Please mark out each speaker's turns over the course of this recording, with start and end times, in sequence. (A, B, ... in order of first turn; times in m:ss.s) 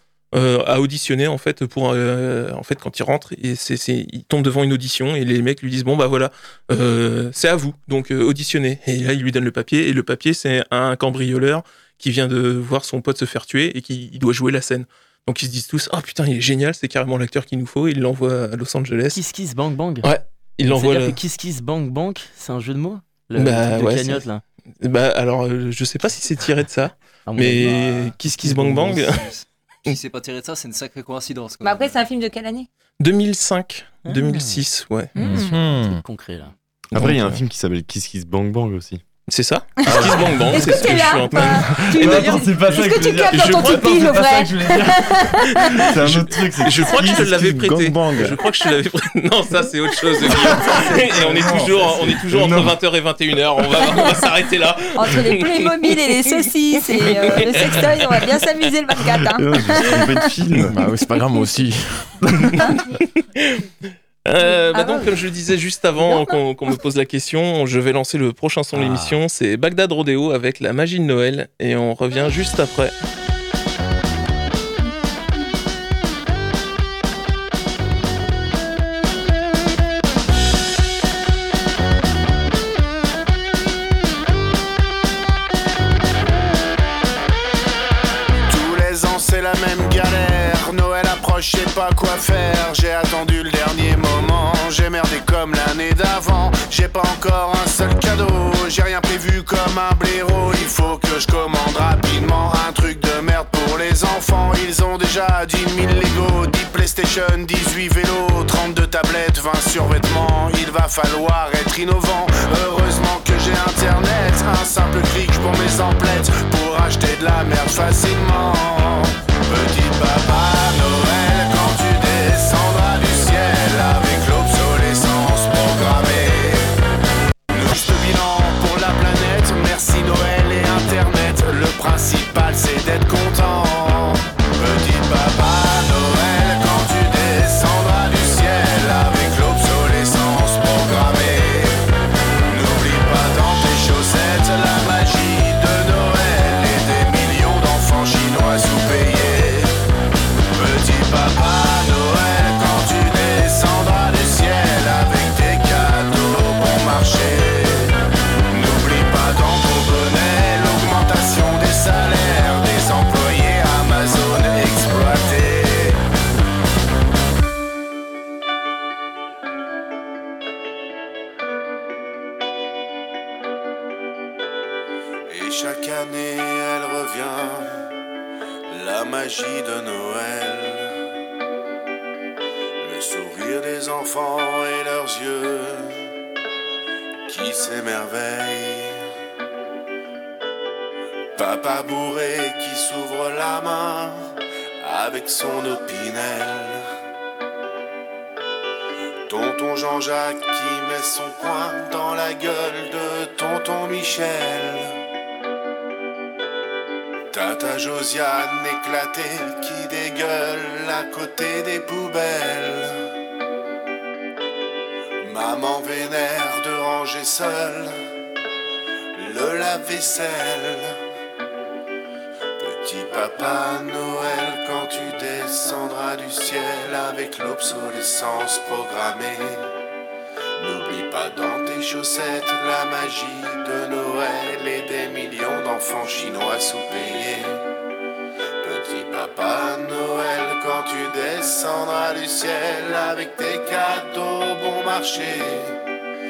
0:00.3-0:19.2 A
0:19.1-0:20.1 B
0:20.0-0:21.2 A
0:20.6-0:24.4 B
0:23.4-0:24.2 A
0:24.8-0:29.2 A
0:27.3-0:29.0 B
0:27.6-0:32.0 C
0:31.6-0:32.7 D
0:33.0-0:35.1 A
0:34.0-0:34.6 B
0:35.2-0:35.6 D
0:35.2-0:36.0 E
0:35.2-0:36.5 B
0:36.9-0:39.0 F
0:37.0-0:37.4 A
0:39.3-0:42.4 A
0:39.8-0:45.9 D
0:39.9-0:40.2 F
0:40.1-0:40.6 E
0:41.3-0:47.5 F
0:43.3-0:44.1 A
0:45.6-0:56.4 A
0:47.2-0:48.4 E
0:50.3-0:52.8 F
0:50.6-0:51.9 E
0:55.0-1:00.3 D
0:56.9-0:58.2 A
0:59.3-1:00.8 F
1:00.7-1:02.5 E
1:03.4-1:03.7 A
1:04.2-1:12.9 A
1:04.7-1:05.2 D
1:06.0-1:06.4 D
1:08.7-1:09.2 B
1:28.5-2:06.7 G
2:07.5-2:21.8 G
2:22.5-2:29.7 G
2:30.5-2:38.0 G
2:38.5-2:46.0 G
2:55.3-2:57.8 G
2:58.7-3:00.9 G
3:02.8-3:05.9 G
3:07.3-3:09.0 G
3:11.4-3:14.2 G
3:14.8-3:16.8 G
3:19.3-3:24.9 G
3:27.3-3:33.0 G
3:35.2-3:37.9 G
3:39.1-3:41.0 G
3:42.6-3:49.7 G
3:50.6-3:57.7 G
3:58.6-4:05.8 G